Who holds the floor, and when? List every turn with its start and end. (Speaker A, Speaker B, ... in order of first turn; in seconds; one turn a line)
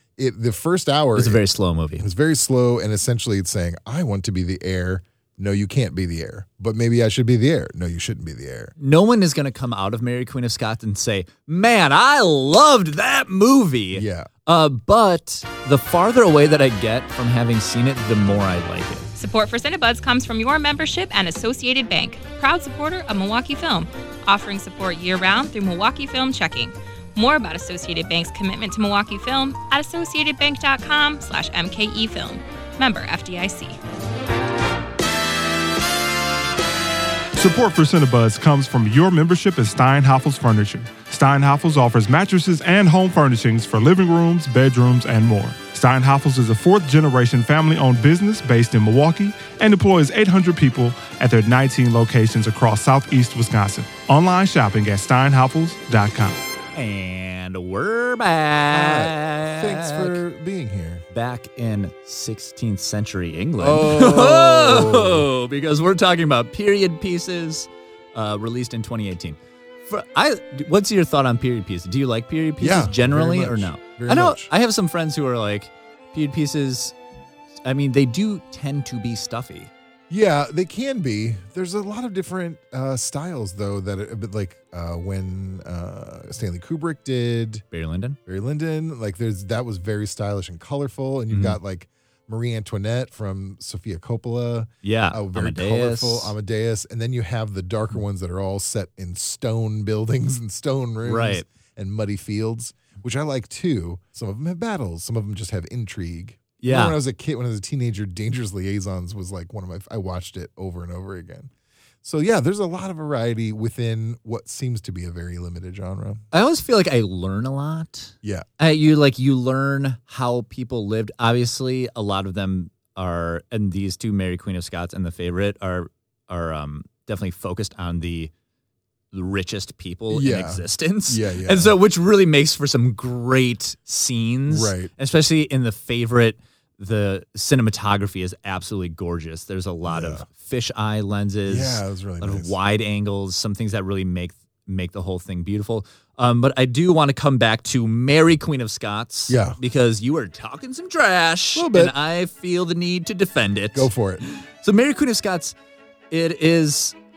Speaker A: 0.2-1.4
Speaker B: 1.2-2.1
Speaker A: 2.0-8.7
Speaker B: 8.8-19.1
Speaker A: 13.9-14.3
Speaker C: 19.2-33.8
Speaker D: 37.4-56.4
Speaker B: 56.7-60.2
Speaker A: 58.7-61.1
Speaker B: 61.1-77.0
Speaker A: 63.6-65.3
Speaker A: 72.6-74.5
Speaker B: 77.7-79.7
Speaker A: 80.1-87.6
Speaker B: 87.7-88.2
Speaker A: 88.3-111.5
Speaker B: 91.3-91.6
Speaker B: 94.8-96.3
Speaker B: 101.0-101.5
Speaker B: 106.6-107.0
Speaker A: 112.0-116.2
Speaker B: 116.3-128.3
Speaker B: 129.1-155.6
Speaker A: 130.1-131.8
Speaker A: 134.5-134.9
Speaker A: 139.9-140.2
Speaker A: 141.5-142.5
Speaker A: 149.3-149.6
Speaker A: 151.6-151.9
Speaker A: 153.7-154.2
Speaker B: 156.1-157.0